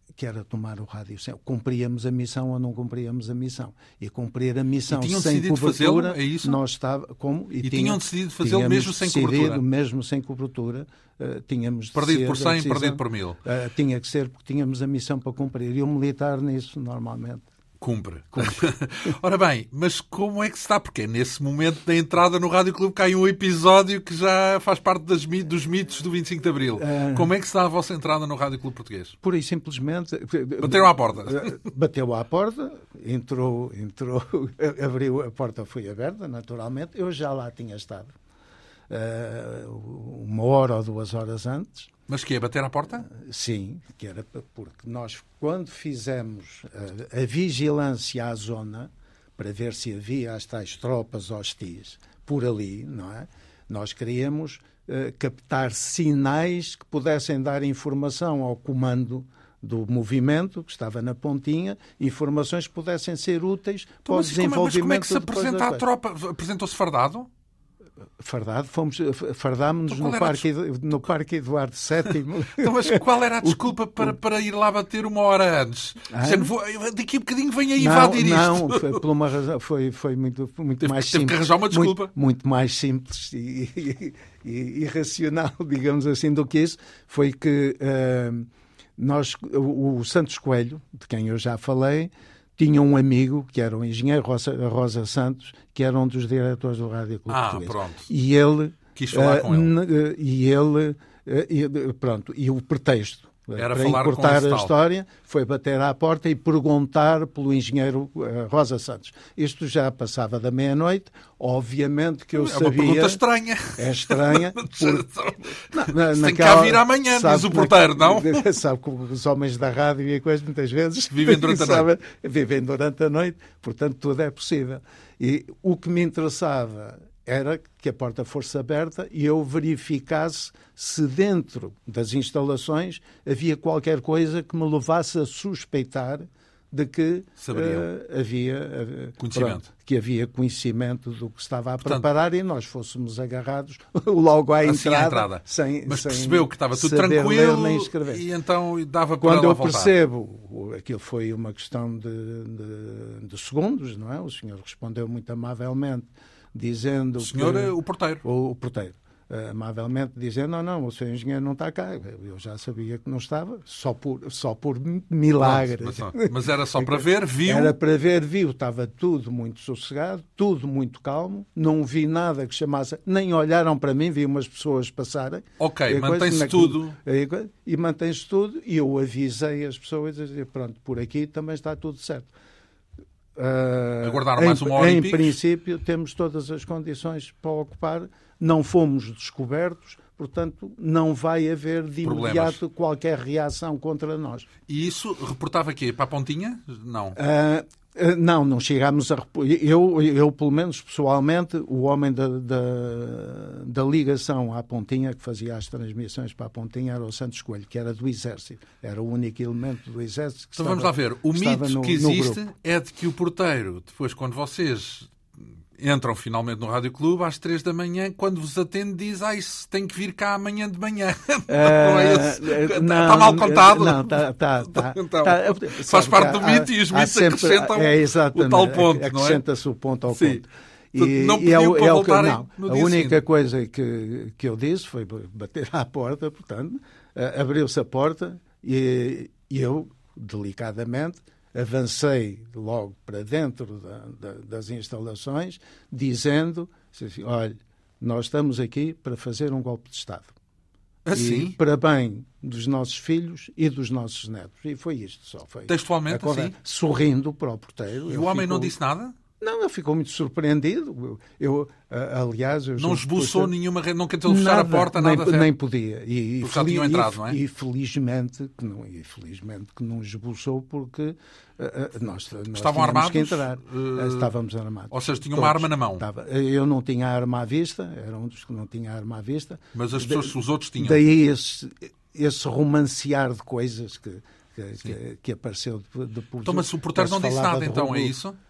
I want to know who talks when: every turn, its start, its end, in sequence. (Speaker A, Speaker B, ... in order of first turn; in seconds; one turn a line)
Speaker A: 0.2-17.5
Speaker B: 4.9-6.6
Speaker B: 7.6-9.6
Speaker B: 11.9-13.4
Speaker B: 17.8-29.2
Speaker A: 18.3-19.1
Speaker A: 26.8-27.3
Speaker A: 29.2-38.1
Speaker B: 30.6-31.5
Speaker A: 38.9-41.9
Speaker B: 42.1-43.1
Speaker A: 43.1-65.8
Speaker B: 64.1-67.3
Speaker A: 68.2-73.7
Speaker B: 69.9-70.5
Speaker B: 72.6-79.0
Speaker A: 76.1-76.5
Speaker A: 77.8-113.2
Speaker B: 80.8-82.1
Speaker B: 97.3-98.1
Speaker B: 99.0-99.7
Speaker B: 103.6-104.7
Speaker B: 112.3-118.5
Speaker A: 113.8-148.3
Speaker B: 121.1-121.9
Speaker B: 137.4-137.9
Speaker B: 139.2-139.7
Speaker B: 144.6-149.9
Speaker A: 149.2-182.3
Speaker B: 157.2-158.2
Speaker B: 165.4-167.8
Speaker B: 175.6-177.0
Speaker A: 183.3-194.5
Speaker B: 184.0-185.4
Speaker B: 192.0-192.6
Speaker B: 194.7-197.2
Speaker A: 197.1-212.4
Speaker B: 210.6-229.4
Speaker A: 221.5-250.3
Speaker B: 230.1-230.4
Speaker B: 230.9-233.2
Speaker B: 251.1-251.6
Speaker A: 251.1-258.8
Speaker B: 255.7-256.6
Speaker B: 258.1-259.2
Speaker A: 259.4-263.5
Speaker B: 262.8-265.5
Speaker A: 264.3-288.1
Speaker B: 266.4-267.4
Speaker B: 272.5-274.3
Speaker B: 274.9-276.0
Speaker B: 279.7-281.0
Speaker B: 286.4-288.4